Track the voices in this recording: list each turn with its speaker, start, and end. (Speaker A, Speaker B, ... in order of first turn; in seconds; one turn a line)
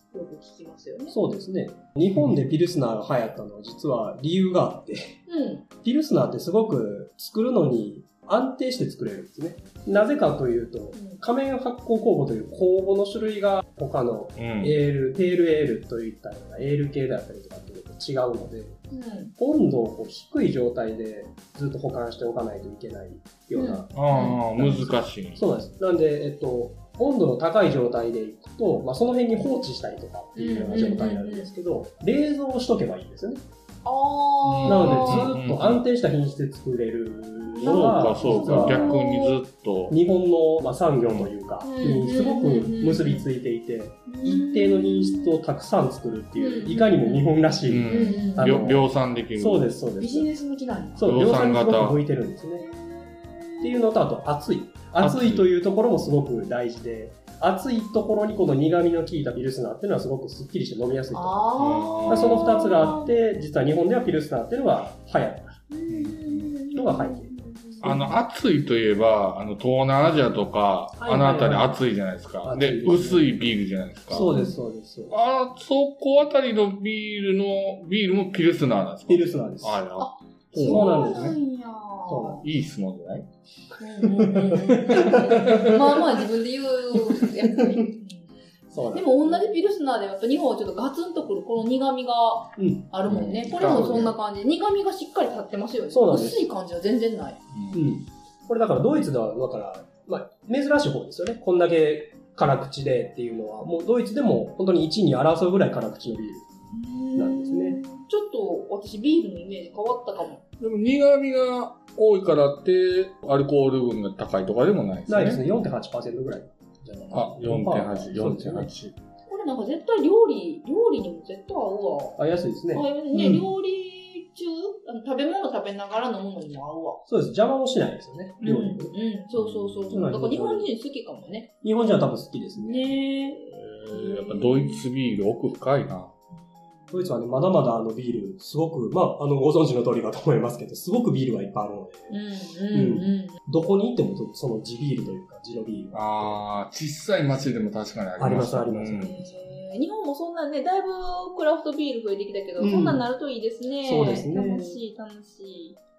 Speaker A: 0.1-1.2
Speaker B: 1.1-5.2
Speaker A: 5.3-5.7
Speaker B: 5.8-18.8
Speaker A: 10.9-11.2
Speaker C: 14.4-14.8
Speaker A: 18.9-19.3
Speaker B: 19.4-33.4
Speaker A: 23.6-24.4
Speaker C: 23.9-25.4
Speaker A: 30.4-31.5
Speaker A: 33.9-35.3
Speaker C: 34.4-35.8
Speaker B: 34.6-38.9
Speaker A: 37.5-39.4
Speaker C: 37.6-40.0
Speaker B: 39.9-50.3
Speaker A: 41.6-43.2
Speaker A: 44.1-45.4
Speaker A: 46.4-47.3
Speaker C: 47.7-49.7
Speaker A: 47.9-48.7
Speaker A: 50.0-51.1
Speaker B: 51.0-52.7
Speaker C: 51.0-52.0
Speaker A: 52.6-53.8
Speaker B: 53.6-61.5
Speaker C: 55.0-55.5
Speaker A: 61.1-63.1
Speaker C: 61.6-63.0
Speaker B: 62.1-65.5
Speaker A: 65.7-68.0
Speaker C: 65.9-66.5
Speaker B: 66.7-67.3
Speaker C: 67.8-74.3
Speaker B: 71.0-71.8
Speaker B: 72.4-73.4
Speaker B: 74.1-75.2
Speaker A: 74.2-74.6
Speaker C: 75.1-81.4
Speaker B: 79.1-79.8
Speaker A: 80.0-82.5
Speaker B: 80.5-81.4
Speaker B: 82.1-82.4
Speaker C: 82.4-83.3
Speaker A: 83.8-88.4
Speaker B: 84.2-86.0
Speaker B: 87.1-87.8
Speaker B: 88.7-89.5
Speaker A: 88.9-97.4
Speaker B: 92.6-94.1
Speaker C: 93.1-94.1
Speaker B: 95.9-96.5
Speaker C: 97.5-97.8
Speaker B: 97.7-106.5
Speaker A: 106.7-110.4
Speaker B: 107.2-107.8
Speaker C: 110.6-115.5
Speaker B: 115.1-118.7
Speaker C: 117.1-119.0
Speaker A: 119.3-122.2
Speaker B: 122.2-123.4
Speaker A: 122.7-127.0
Speaker B: 127.1-128.9
Speaker A: 128.4-131.5
Speaker C: 129.6-130.0
Speaker B: 129.9-130.7
Speaker B: 131.6-132.8
Speaker A: 132.6-134.8
Speaker C: 133.5-136.1
Speaker B: 136.9-142.1
Speaker A: 142.1-143.4
Speaker B: 142.7-146.4
Speaker C: 145.9-149.2
Speaker B: 148.2-149.2
Speaker A: 149.0-155.8
Speaker B: 152.6-153.1
Speaker B: 153.8-154.8